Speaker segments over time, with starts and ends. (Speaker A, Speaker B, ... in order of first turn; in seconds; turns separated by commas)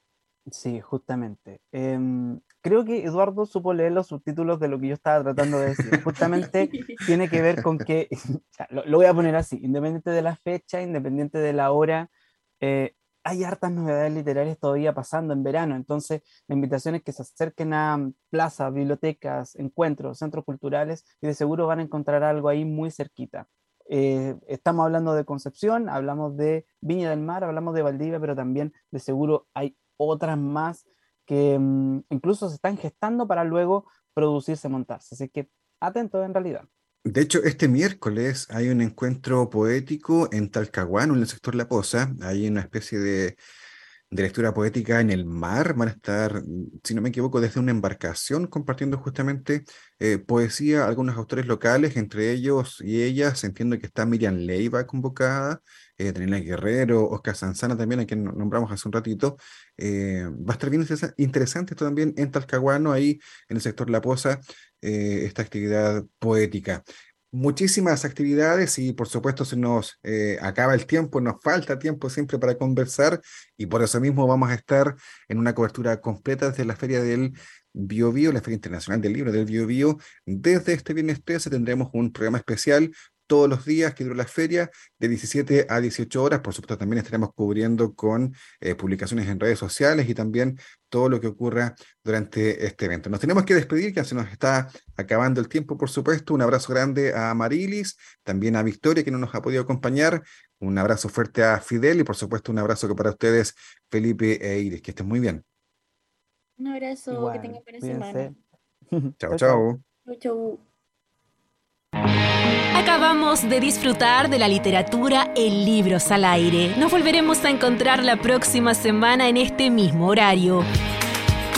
Speaker A: 0.5-12.1, Speaker A: 12.6-36.7, Speaker B: 37.0-43.4, Speaker B: 44.1-105.4, Speaker C: 106.6-108.3, Speaker A: 107.1-108.3, Speaker A: 108.9-109.6, Speaker B: 109.2-109.8, Speaker C: 110.0-110.6, Speaker D: 112.7-120.6